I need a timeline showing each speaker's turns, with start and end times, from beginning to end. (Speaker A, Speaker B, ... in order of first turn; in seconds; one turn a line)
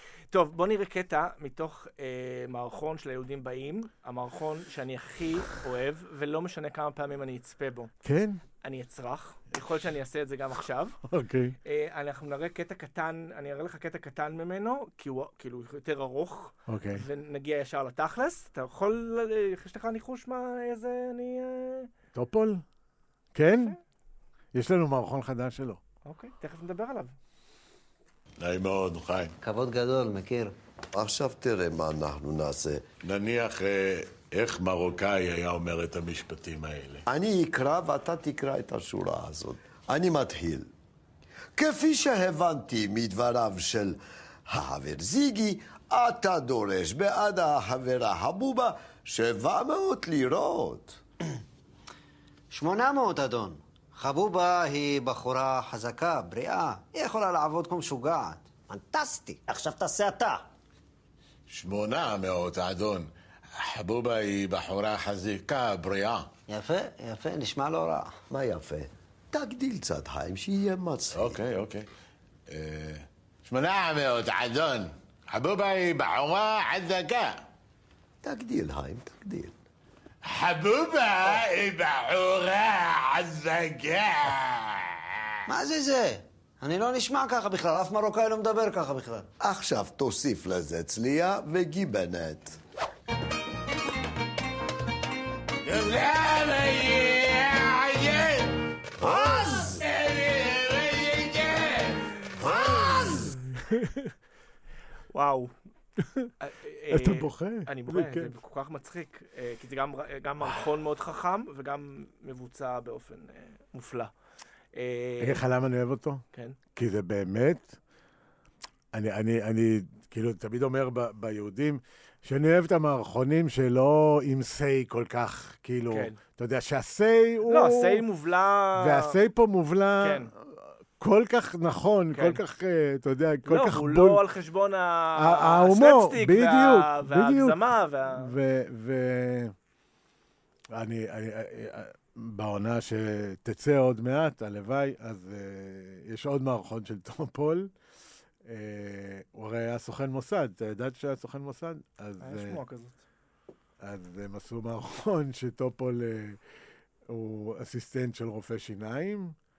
Speaker A: 0.3-7.9
Speaker B: 8.0-8.4
Speaker A: 8.6-11.0
Speaker B: 11.0-11.6
Speaker A: 11.6-21.9
Speaker B: 16.7-17.0
Speaker B: 22.1-22.6
Speaker B: 23.3-23.8
Speaker B: 24.5-25.8
Speaker A: 26.0-27.1
Speaker C: 28.4-29.3
Speaker D: 29.4-30.6
Speaker E: 30.9-32.9
Speaker C: 33.0-37.0
Speaker E: 37.1-40.7
Speaker E: 41.6-51.0
Speaker D: 52.5-60.5
Speaker C: 61.5-66.3
Speaker D: 66.5-68.2
Speaker E: 68.3-71.4
Speaker C: 71.1-71.9
Speaker C: 72.5-77.4
Speaker E: 78.2-79.5
Speaker C: 80.2-85.0
Speaker D: 85.5-89.3
Speaker E: 89.4-92.6
Speaker C: 95.6-103.4
Speaker E: 99.0-99.8
Speaker B: 103.5-104.1
Speaker A: 105.1-105.5
Speaker B: 106.0-106.3
Speaker A: 106.4-114.1
Speaker B: 106.9-108.3
Speaker A: 114.7-115.4
Speaker B: 115.2-116.2
Speaker B: 116.7-117.8
Speaker B: 118.9-128.0
Speaker A: 125.9-126.2
Speaker A: 127.5-129.2
Speaker B: 128.8-134.2
Speaker A: 130.0-130.3
Speaker A: 132.1-132.4
Speaker A: 133.4-138.3
Speaker B: 135.2-137.6
Speaker B: 138.1-139.5
Speaker B: 140.7-147.7
Speaker B: 148.4-152.6
Speaker A: 152.2-153.0
Speaker B: 153.8-156.4
Speaker B: 157.1-159.3